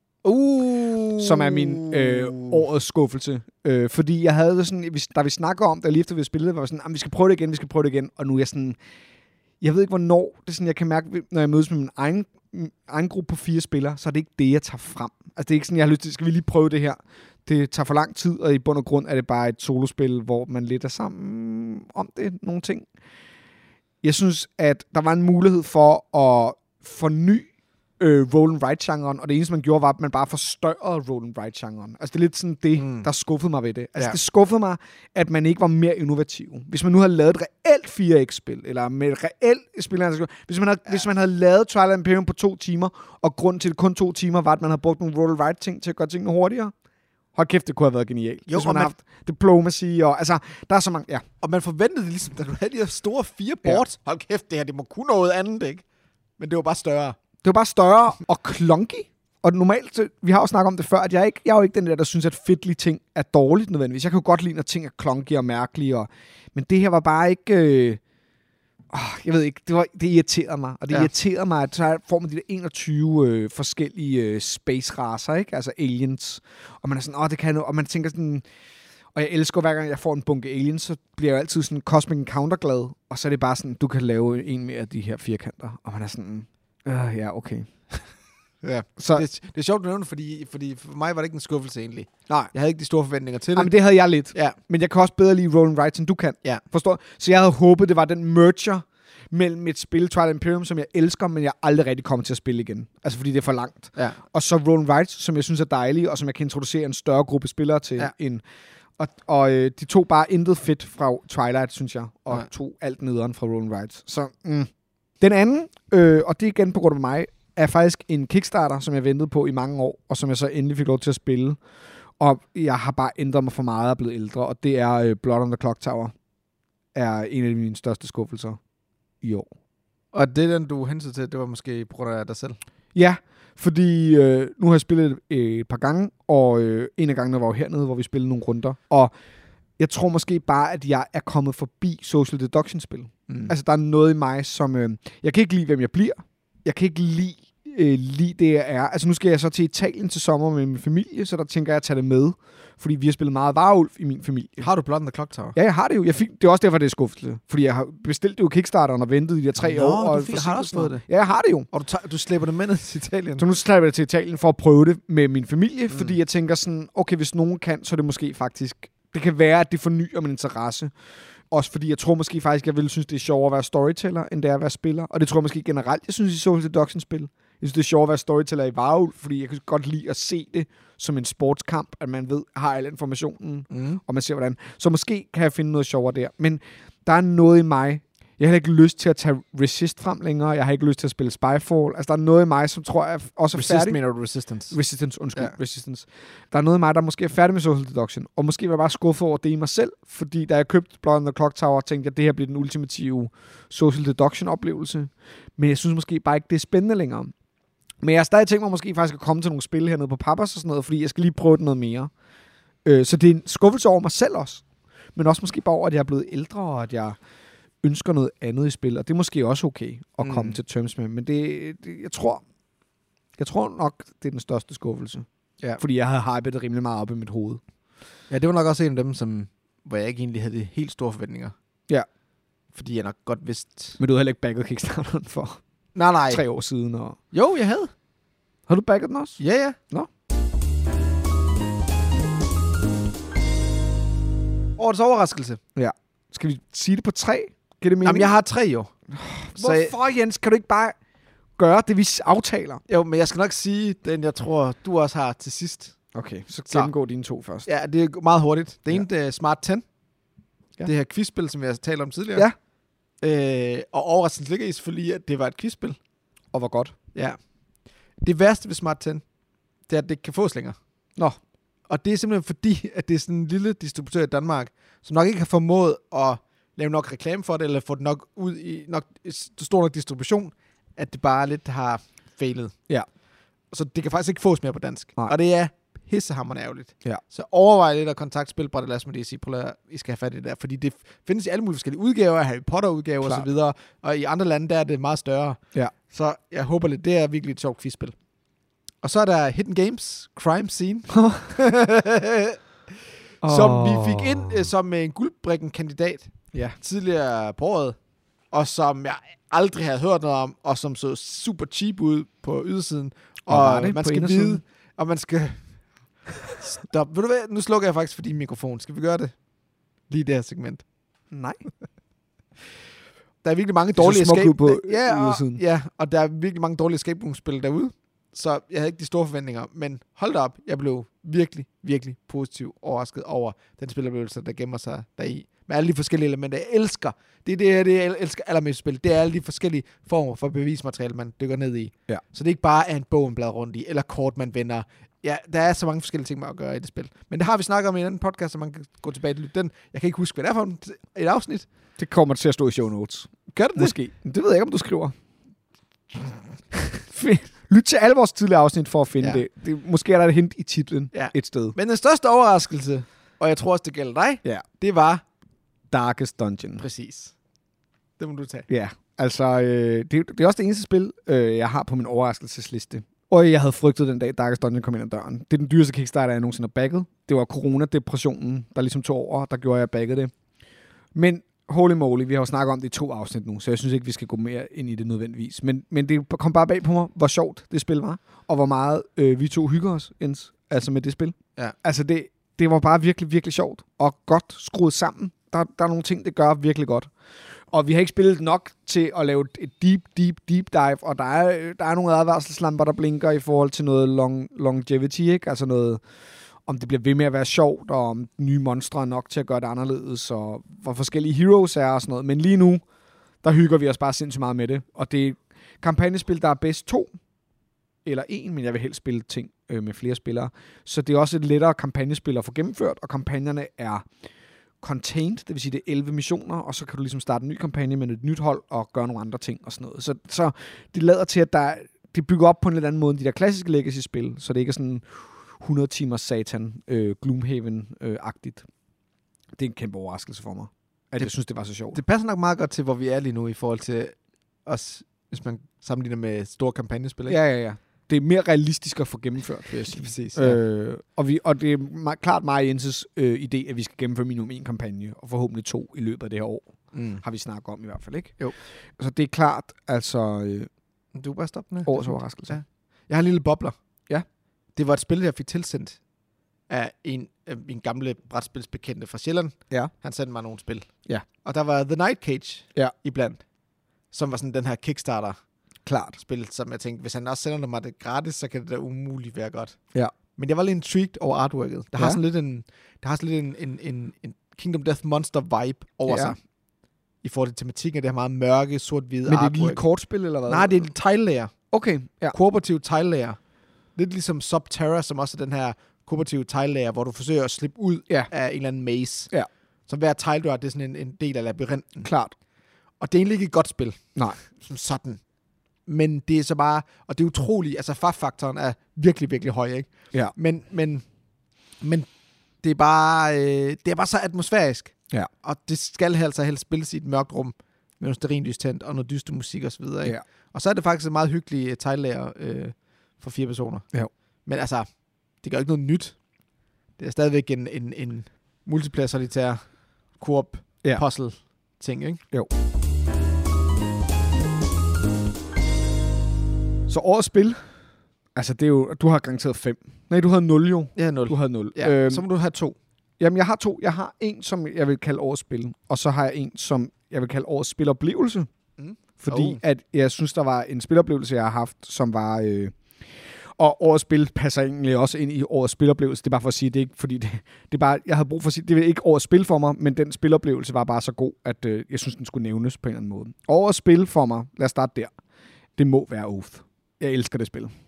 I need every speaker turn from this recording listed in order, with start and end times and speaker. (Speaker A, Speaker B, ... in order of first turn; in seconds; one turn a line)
Speaker A: 0.2-2.6
Speaker B: 1.2-8.8
Speaker B: 9.6-22.9
Speaker B: 24.0-27.5
Speaker B: 28.0-46.7
Speaker A: 32.8-33.1
Speaker B: 47.4-51.2
Speaker A: 48.5-49.0
Speaker A: 51.4-55.8
Speaker A: 56.4-57.2
Speaker B: 57.4-68.0
Speaker B: 68.9-78.5
Speaker B: 79.2-87.7
Speaker A: 88.6-93.7
Speaker B: 89.0-89.2
Speaker B: 93.6-108.4
Speaker A: 94.3-94.6
Speaker B: 109.0-121.6
Speaker B: 122.2-126.1
Speaker B: 127.0-128.6
Speaker B: 129.2-129.5
Speaker A: 130.1-132.6
Speaker B: 132.9-139.1
Speaker B: 139.8-154.7
Speaker A: 143.3-143.5
Speaker A: 154.6-155.6
Speaker B: 155.6-161.7
Speaker A: 159.6-161.1
Speaker A: 161.7-163.4
Speaker B: 163.4-170.9
Speaker B: 171.5-194.0
Speaker A: 183.7-184.0
Speaker A: 193.5-194.8
Speaker B: 194.7-207.3
Speaker B: 208.0-212.1
Speaker B: 212.8-214.6
Speaker B: 215.2-217.2
Speaker B: 217.8-222.4
Speaker A: 220.2-220.6
Speaker B: 223.4-225.3
Speaker B: 225.8-227.6
Speaker A: 228.3-231.6
Speaker A: 232.8-234.0
Speaker B: 234.0-235.6
Speaker A: 236.0-236.4
Speaker B: 236.3-237.2
Speaker A: 237.3-237.9
Speaker B: 238.7-239.4
Speaker A: 239.4-239.8
Speaker A: 244.8-245.6
Speaker B: 245.8-248.3
Speaker A: 248.0-248.9
Speaker B: 249.1-251.0
Speaker A: 249.6-249.9
Speaker B: 251.6-252.8
Speaker A: 252.9-256.0
Speaker B: 256.1-257.7
Speaker A: 257.6-259.8
Speaker A: 260.8-262.5
Speaker A: 263.2-266.0
Speaker B: 266.5-266.9
Speaker A: 268.2-269.2
Speaker A: 269.9-270.8
Speaker A: 271.9-282.8
Speaker A: 283.7-298.1
Speaker A: 299.0-302.6
Speaker B: 301.1-301.5
Speaker B: 303.4-304.6
Speaker A: 303.4-308.0
Speaker A: 308.5-315.7
Speaker B: 313.5-314.6
Speaker A: 316.4-319.3
Speaker A: 320.1-320.8
Speaker B: 321.3-321.6
Speaker A: 323.4-351.7
Speaker B: 324.0-325.6
Speaker B: 352.0-355.1
Speaker A: 353.5-353.9
Speaker B: 356.7-361.8
Speaker A: 361.1-365.2
Speaker B: 365.9-366.8
Speaker A: 366.8-367.4
Speaker A: 368.2-368.7
Speaker B: 368.7-380.3
Speaker B: 381.1-397.1
Speaker B: 397.7-406.0
Speaker B: 406.7-412.8
Speaker B: 413.4-417.1
Speaker B: 418.1-424.1
Speaker B: 424.8-438.7
Speaker B: 439.6-442.0
Speaker A: 441.9-447.4
Speaker B: 447.3-456.7
Speaker A: 449.7-450.6
Speaker A: 456.9-457.2
Speaker B: 457.2-458.4
Speaker B: 459.0-460.7
Speaker A: 461.1-463.8
Speaker B: 461.9-462.6
Speaker A: 464.8-466.0
Speaker A: 466.7-470.9
Speaker A: 471.4-473.4
Speaker A: 474.1-475.4
Speaker B: 475.9-476.2
Speaker A: 476.2-479.8
Speaker A: 480.4-486.4
Speaker B: 486.1-486.3
Speaker A: 487.2-489.8
Speaker B: 489.3-490.9
Speaker A: 490.5-491.5
Speaker B: 491.7-492.4
Speaker A: 492.3-493.4
Speaker A: 494.0-499.3
Speaker A: 499.9-502.1
Speaker B: 502.0-502.3
Speaker A: 503.0-505.2
Speaker A: 505.9-511.1
Speaker A: 511.8-512.1
Speaker A: 512.6-523.9
Speaker A: 524.5-524.9
Speaker A: 525.4-526.2
Speaker A: 527.0-529.6
Speaker A: 530.2-532.2
Speaker B: 536.9-537.6
Speaker B: 538.4-542.2
Speaker A: 541.0-542.8
Speaker B: 543.2-548.5
Speaker A: 548.8-549.6
Speaker B: 549.2-552.8
Speaker B: 553.6-565.1
Speaker B: 565.8-567.7